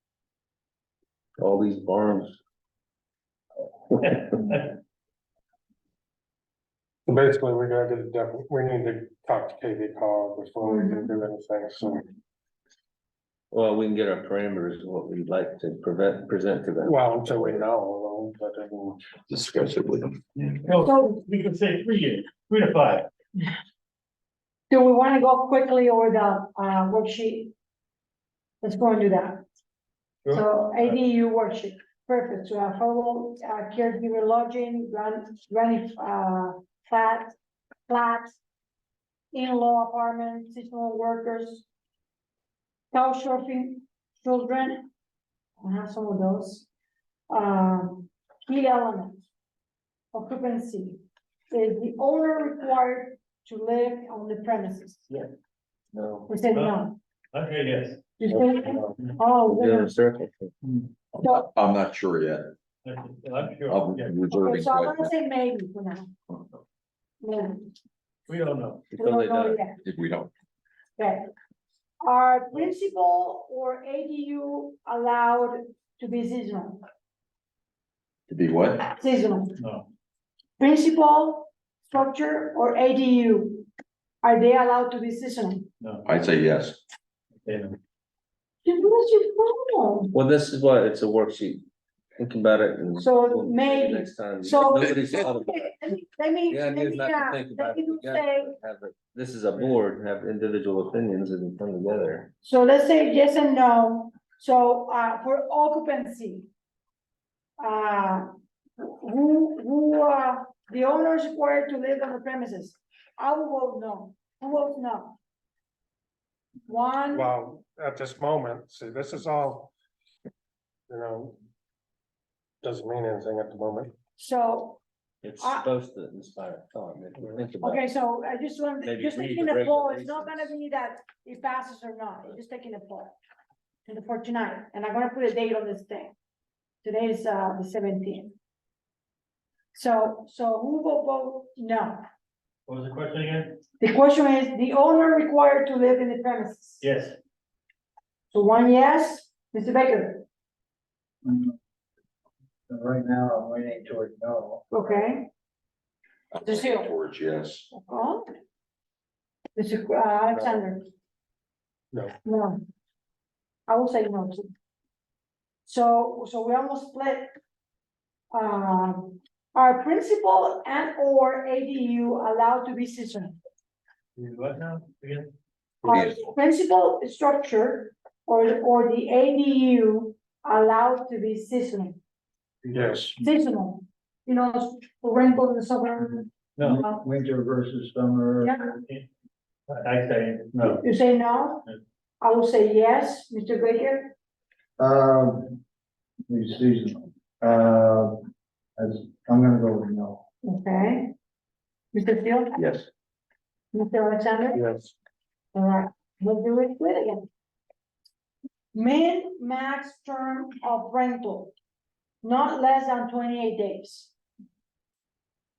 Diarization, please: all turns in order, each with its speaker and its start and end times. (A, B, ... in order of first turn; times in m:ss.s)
0:01.4-0:02.3 A
0:04.0-0:04.8 B
0:07.0-0:12.0 C
0:10.6-0:11.1 D
0:13.5-0:17.6 A
0:16.8-0:19.0 C
0:19.3-0:20.6 E
0:20.4-0:23.1 B
0:20.8-0:21.2 D
0:24.7-0:27.5 D
0:28.6-0:29.4 D
0:30.2-0:31.0 B
0:30.3-0:37.3 D
0:37.9-0:38.4 D
0:39.3-0:41.6 D
0:42.9-0:44.9 D
0:45.6-0:46.7 D
0:47.3-0:49.2 D
0:50.1-0:55.0 D
0:55.9-0:56.3 A
0:56.3-0:57.0 D
0:57.3-0:58.1 B
0:58.2-0:59.9 D
0:58.3-0:58.9 A
0:59.4-1:00.5 A
1:01.1-1:02.5 E
1:02.8-1:04.2 B
1:03.7-1:05.1 E
1:04.3-1:06.1 D
1:07.2-1:07.7 D
1:08.3-1:08.9 B
1:08.9-1:09.6 A
1:09.0-1:09.8 D
1:09.8-1:10.3 E
1:11.0-1:11.3 D
1:12.0-1:16.8 D
1:18.3-1:18.9 E
1:18.9-1:19.6 D
1:19.6-1:19.8 B
1:20.6-1:23.7 D
1:24.2-1:25.7 D
1:25.8-1:26.0 B
1:26.0-1:26.8 E
1:27.4-1:27.8 B
1:28.6-1:30.1 D
1:30.1-1:31.6 A
1:32.2-1:35.7 A
1:33.0-1:38.5 D
1:36.5-1:42.3 A
1:42.4-1:46.5 D
1:47.6-1:55.2 D
1:56.6-1:57.3 D
1:57.1-1:59.7 C
2:00.9-2:01.4 C
2:02.6-2:03.9 C
2:04.2-2:04.8 D
2:05.2-2:07.8 A
2:05.4-2:05.6 D
2:07.6-2:13.1 D
2:08.8-2:10.5 A
2:13.8-2:16.2 D
2:16.8-2:18.3 D
2:19.7-2:22.0 D
2:22.7-2:23.6 B
2:23.8-2:26.8 D
2:26.8-2:27.2 B
2:28.3-2:30.2 D
2:31.2-2:31.5 F
2:32.7-2:34.6 F
2:34.7-2:35.3 D
2:36.3-2:37.7 E
2:36.4-2:36.9 D
2:37.7-2:38.4 D
2:39.5-2:40.9 D
2:42.2-2:42.6 D
2:43.7-2:44.5 D
2:45.6-2:47.4 D
2:48.3-2:53.4 D
2:54.2-2:55.3 B
2:55.8-3:02.0 D
2:55.9-2:56.3 E
3:02.6-3:03.0 B
3:02.7-3:03.2 C
3:03.2-3:07.0 D
3:06.6-3:06.8 B
3:06.6-3:08.6 F
3:08.4-3:08.8 D
3:08.8-3:09.0 B
3:09.7-3:10.8 B
3:10.7-3:11.6 D
3:12.2-3:14.1 D
3:14.8-3:15.6 F
3:16.3-3:18.1 F
3:18.8-3:20.2 F
3:20.4-3:21.1 D
3:21.9-3:22.6 D
3:22.5-3:22.9 E
3:23.7-3:24.6 D
3:24.5-3:24.9 C
3:25.5-3:27.3 D
3:28.7-3:31.5 D
3:32.2-3:34.1 D